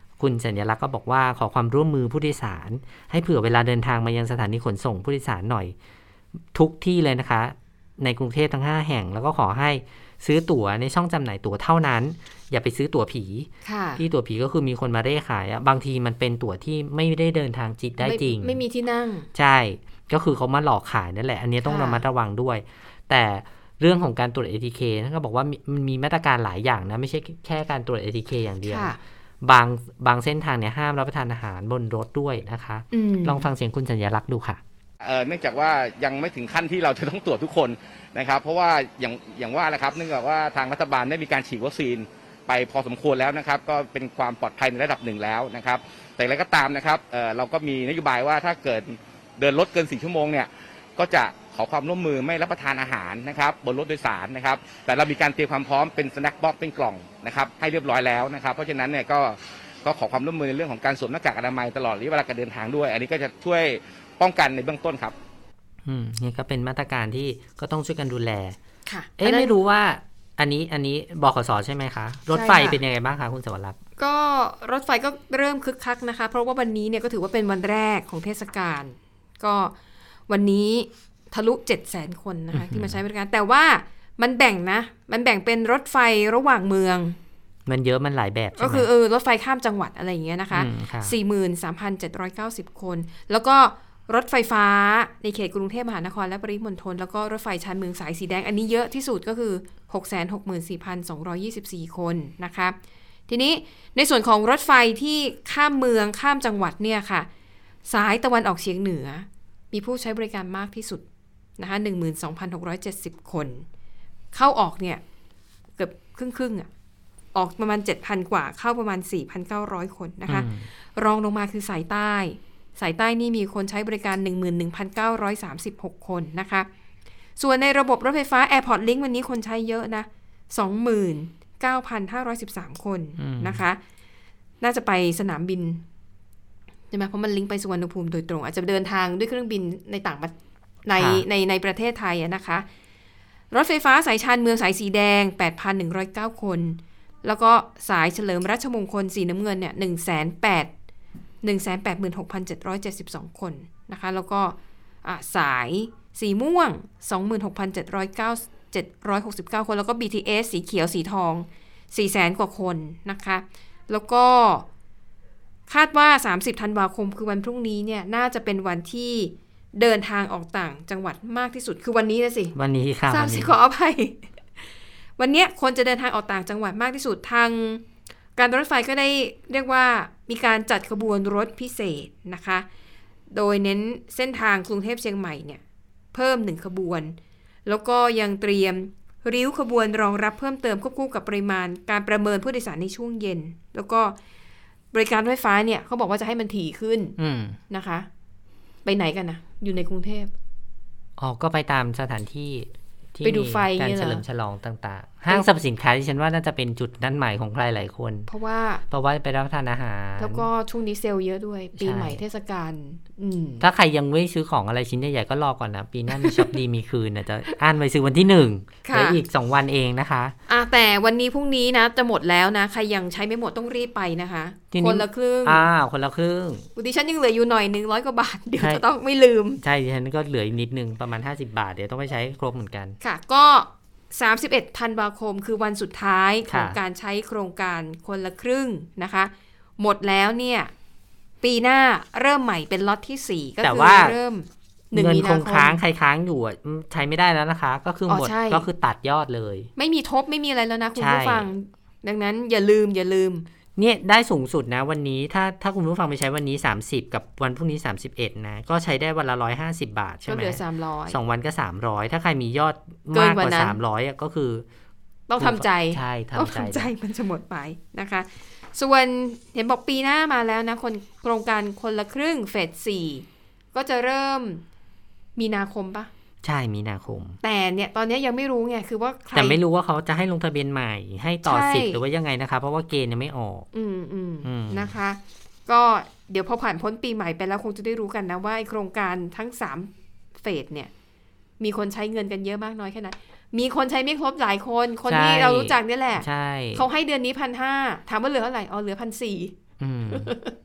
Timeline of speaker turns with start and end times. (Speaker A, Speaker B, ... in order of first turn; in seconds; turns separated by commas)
Speaker A: 0.2-5.7, Speaker A: 6.5-18.6, Speaker B: 13.6-14.0, Speaker B: 18.0-19.3, Speaker A: 19.3-34.6, Speaker B: 21.6-22.0, Speaker B: 28.7-29.0, Speaker B: 32.9-33.5, Speaker C: 35.0-65.1, Speaker A: 65.8-68.6, Speaker B: 68.9-69.5, Speaker A: 69.2-73.8, Speaker B: 72.3-72.8, Speaker B: 74.0-79.7, Speaker B: 80.3-87.2, Speaker A: 82.5-83.0, Speaker A: 87.7-88.9, Speaker B: 88.6-102.8, Speaker A: 90.5-91.1, Speaker B: 103.3-107.3, Speaker B: 107.9-111.0, Speaker B: 111.6-113.6, Speaker B: 114.3-115.0, Speaker B: 115.8-116.7, Speaker B: 117.3-126.7, Speaker A: 120.3-120.7, Speaker B: 127.4-133.8, Speaker A: 133.2-133.6, Speaker B: 134.6-135.8, Speaker B: 136.9-140.3, Speaker B: 140.8-142.7, Speaker A: 141.0-141.2, Speaker B: 143.5-150.7, Speaker B: 151.4-164.7, Speaker B: 165.7-172.5, Speaker A: 172.5-173.5, Speaker B: 173.1-174.2, Speaker B: 175.2-177.8, Speaker B: 178.3-182.7, Speaker B: 183.3-185.6, Speaker B: 186.1-194.2, Speaker B: 194.9-197.2, Speaker A: 197.2-197.6, Speaker B: 197.7-198.1, Speaker B: 198.8-200.3, Speaker A: 201.2-208.3, Speaker B: 203.2-204.2, Speaker B: 208.3-208.8, Speaker A: 208.9-210.5, Speaker B: 210.2-213.7, Speaker A: 211.8-212.2, Speaker A: 213.6-220.3, Speaker B: 216.1-216.5, Speaker B: 218.8-219.2, Speaker B: 220.5-225.7, Speaker A: 224.7-226.7, Speaker B: 226.8-229.6, Speaker A: 228.6-228.8, Speaker A: 229.6-233.0, Speaker B: 233.0-240.7, Speaker A: 236.5-236.8, Speaker B: 241.4-245.8, Speaker A: 243.6-244.2, Speaker A: 244.9-249.7, Speaker B: 248.1-248.7, Speaker B: 249.8-253.4, Speaker A: 251.0-251.5, Speaker A: 253.8-264.6, Speaker B: 260.2-261.1, Speaker B: 263.1-263.8, Speaker B: 265.3-274.6, Speaker A: 265.4-266.9, Speaker B: 275.4-276.1, Speaker A: 276.4-277.4, Speaker B: 277.4-279.6, Speaker A: 279.3-283.7, Speaker B: 281.4-282.0, Speaker B: 283.7-290.9, Speaker A: 284.4-284.9, Speaker B: 291.6-299.5, Speaker A: 295.1-296.9, Speaker A: 299.8-300.3, Speaker B: 300.1-300.6